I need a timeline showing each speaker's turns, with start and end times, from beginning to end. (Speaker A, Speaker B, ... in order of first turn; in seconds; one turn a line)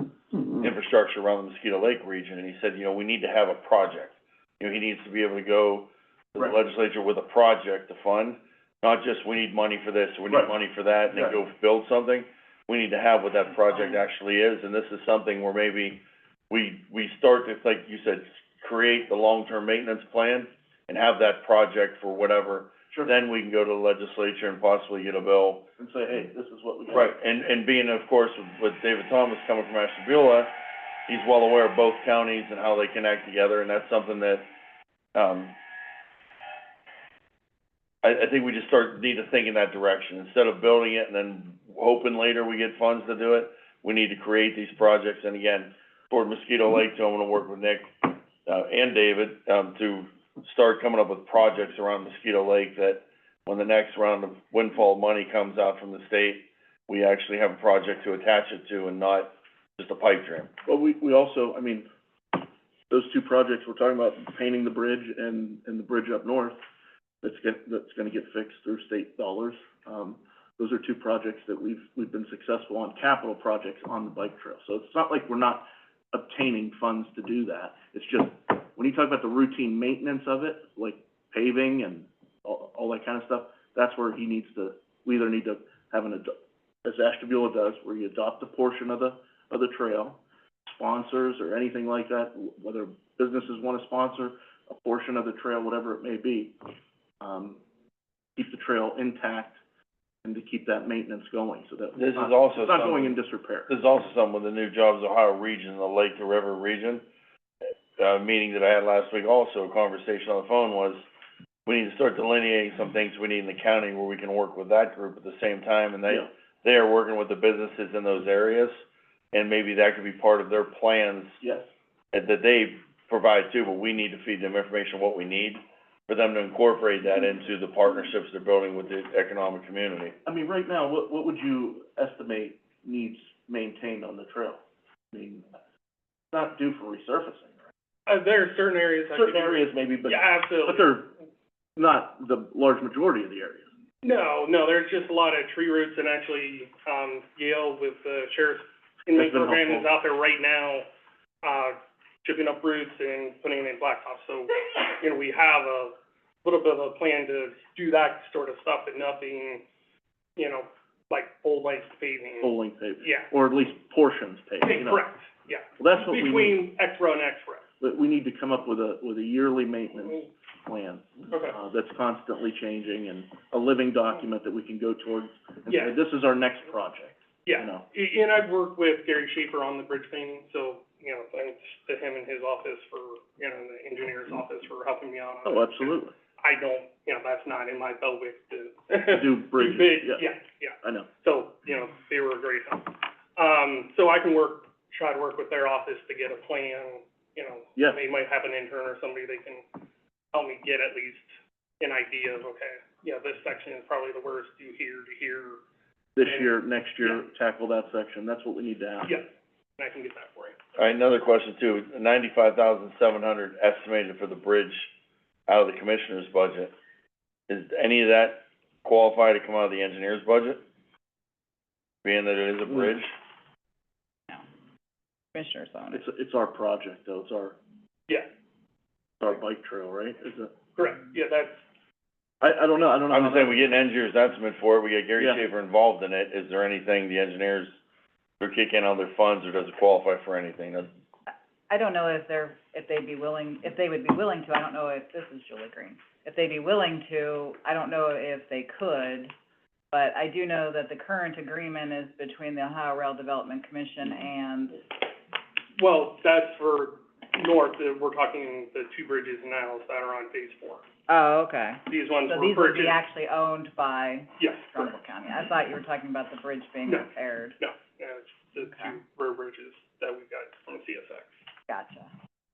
Speaker A: 0.5-25.6
Speaker B: 25.8-27.1
Speaker A: 26.9-30.5
Speaker A: 31.1-34.5
Speaker A: 35.1-35.5
Speaker A: 38.0-60.5
Speaker B: 60.6-66.6
Speaker B: 67.2-96.6
Speaker B: 97.2-97.6
Speaker B: 98.3-99.6
Speaker B: 100.2-103.7
Speaker A: 101.9-103.2
Speaker A: 103.7-107.0
Speaker A: 108.0-111.0
Speaker A: 111.7-118.7
Speaker A: 119.3-121.4
Speaker B: 121.4-121.7
Speaker A: 122.1-130.1
Speaker B: 130.2-134.6
Speaker B: 135.1-135.4
Speaker B: 136.3-137.5
Speaker C: 138.1-141.0
Speaker B: 139.1-141.1
Speaker B: 141.8-143.7
Speaker C: 144.0-150.9
Speaker B: 149.1-149.9
Speaker C: 151.4-159.6
Speaker C: 160.3-162.5
Speaker B: 162.4-165.0
Speaker C: 163.0-163.3
Speaker C: 164.6-167.6
Speaker B: 165.8-166.6
Speaker B: 167.8-177.8
Speaker C: 175.7-176.0
Speaker C: 177.4-199.6
Speaker B: 185.4-186.1
Speaker B: 189.1-190.3
Speaker B: 190.8-191.1
Speaker C: 200.3-205.6
Speaker B: 206.2-209.2
Speaker C: 206.2-207.2
Speaker C: 209.1-210.6
Speaker A: 210.8-214.9
Speaker A: 215.5-216.7
Speaker A: 217.5-220.6
Speaker A: 222.0-223.1
Speaker D: 225.3-226.0
Speaker B: 225.9-227.6
Speaker B: 229.2-230.5
Speaker C: 230.8-231.6
Speaker B: 232.4-233.7
Speaker A: 233.1-237.7
Speaker A: 238.4-240.9
Speaker D: 241.7-249.3
Speaker D: 249.9-254.8
Speaker C: 255.8-260.8
Speaker D: 261.1-267.6
Speaker C: 261.9-263.0
Speaker C: 264.4-264.9
Speaker C: 266.9-271.3
Speaker D: 268.7-268.9
Speaker D: 271.7-272.1